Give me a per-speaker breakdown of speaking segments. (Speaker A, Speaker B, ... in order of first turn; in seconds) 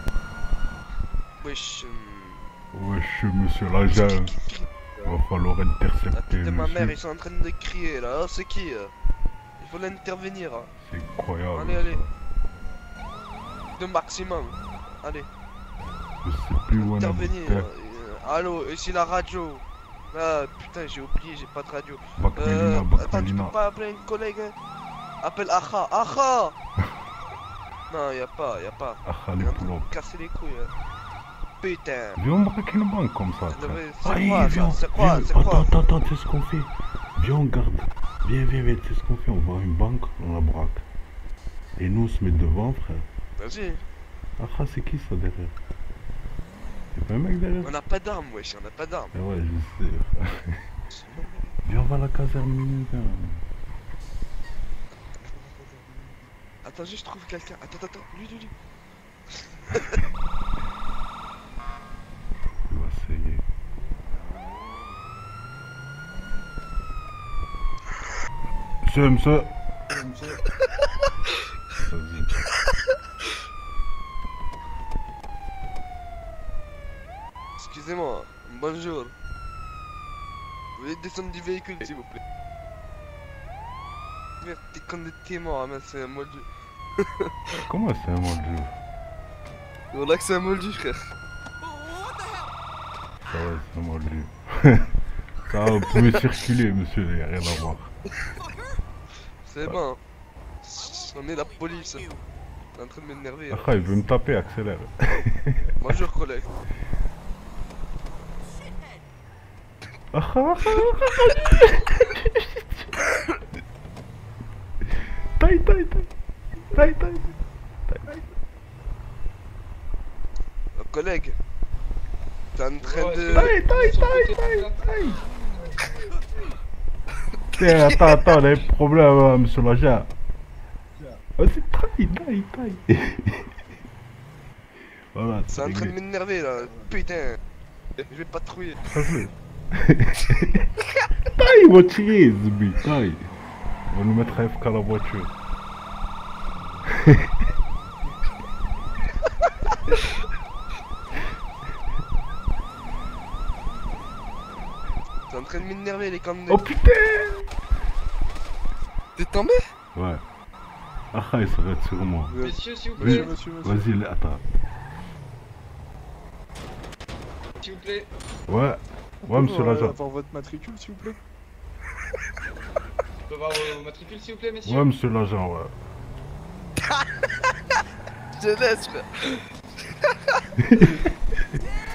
Speaker A: 1.4-2.4, 3.9-5.1, 6.1-8.9, 9.6-10.7, 11.5-12.0, 13.8-15.3, 16.7-24.5, 25.2-26.5, 27.9-30.7, 31.6-32.2, 33.5-35.7, 43.4-43.8, 47.6-49.1, 51.0-51.2, 56.6-58.5, 59.5-60.0, 77.6-79.1, 80.8-82.2, 84.4-86.5, 87.0-87.3, 89.9-91.0, 99.4-100.0, 100.6-102.1, 102.7-103.7, 105.8-106.5, 120.8-121.3, 122.5-123.5, 127.7-128.3, 135.5-137.4, 138.0-138.8, 155.3-156.6, 159.2-159.6, 178.3-181.0
Speaker B: 2.7-4.3, 5.0-7.0, 10.8-12.1, 16.2-17.7, 22.2-23.5, 29.0-29.9, 32.1-40.8, 41.8-43.1, 44.4-45.5, 46.9-47.8, 49.1-50.6, 51.6-53.4, 62.7-63.4, 68.8-69.5, 71.7-72.5, 87.6-88.7, 93.2-94.9, 95.5-97.9, 103.5-105.9, 110.1-113.0, 115.4-116.1, 116.7-118.2, 123.3-125.2, 127.6-130.1, 131.4-133.6, 135.1-135.9, 138.8-140.7, 141.3-143.2, 143.9-145.3, 147.0-147.3, 156.5-157.5, 159.9-160.2, 161.1-162.4, 163.0-164.4, 168.5-170.0, 174.6-175.7, 180.6-181.1
Speaker C: 69.9-70.4, 122.8-125.0, 162.4-163.3, 167.6-168.1, 173.3-174.9
Speaker D: 162.3-163.8, 169.3-171.2